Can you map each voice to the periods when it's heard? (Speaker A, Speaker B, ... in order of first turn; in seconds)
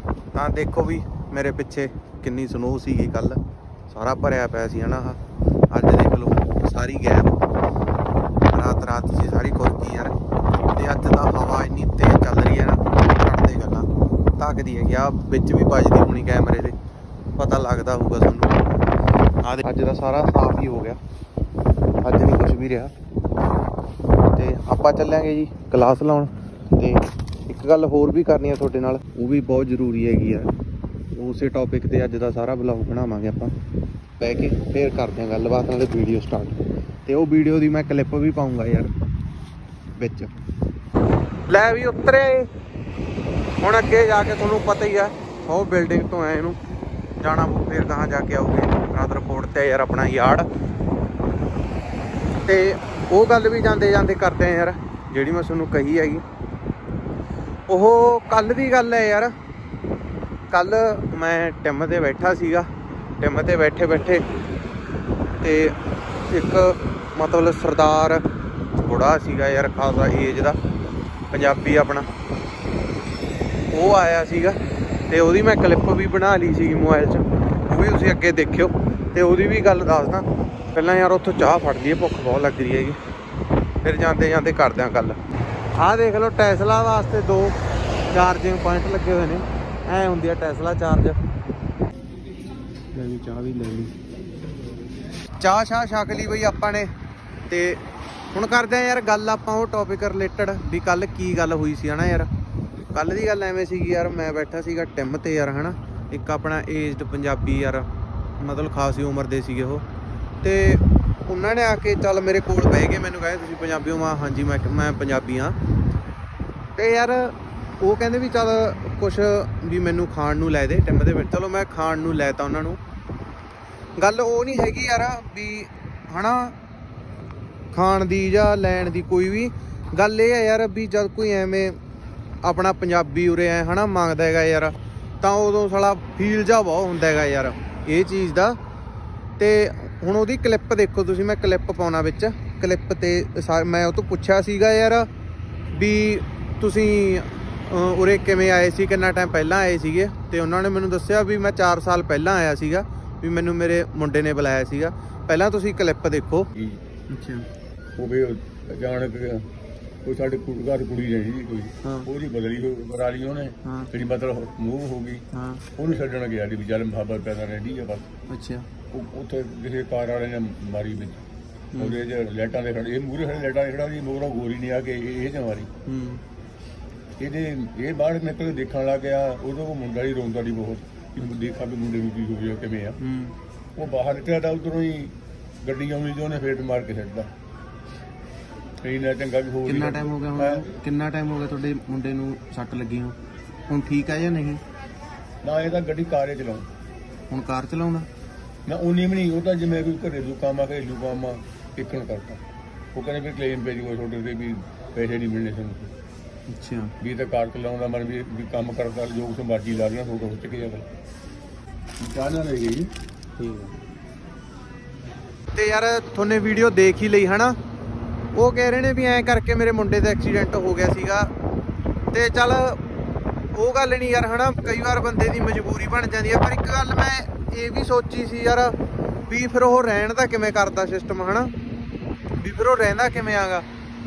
Speaker A: 0.3-5.2, 5.7-7.4, 8.5-10.2, 10.7-16.8, 17.4-18.7, 19.4-21.0, 22.0-22.9, 24.3-30.5, 31.1-33.5, 34.2-38.9, 40.0-40.3, 41.5-42.5, 43.6-46.6, 47.2-50.5, 52.5-56.2, 57.7-59.3, 60.5-62.7, 63.2-64.2, 65.4-68.2, 68.8-70.6, 71.3-72.1, 73.7-74.6, 75.1-83.0, 83.8-85.2, 85.7-87.6, 88.1-91.2, 92.9-93.9, 95.4-96.9, 97.5-97.8, 98.3-102.3, 102.9-107.9, 108.4-109.8, 110.4-115.6, 116.8-122.8, 124.0-126.5, 127.7-131.8, 132.4-138.6, 139.4-145.1, 145.7-156.5, 157.1-157.4, 161.8-162.1, 163.6-163.9, 165.3-165.6, 168.3-168.7, 171.7-172.0, 175.8-176.2, 183.0-183.3, 189.7-193.2, 193.7-194.6, 197.3-198.1, 206.5-206.9, 213.4-213.7, 215.5-217.6, 218.3-221.3, 222.1-222.8, 223.5-228.8, 229.3-231.5, 232.4-233.7
Speaker B: 156.5-156.8, 158.0-159.5, 160.1-168.1, 168.9-171.2, 171.8-175.7, 177.2-183.0, 183.8-187.3, 188.8-190.6, 195.4-196.7, 198.7-202.4, 202.9-205.9, 207.0-210.8, 212.0-212.9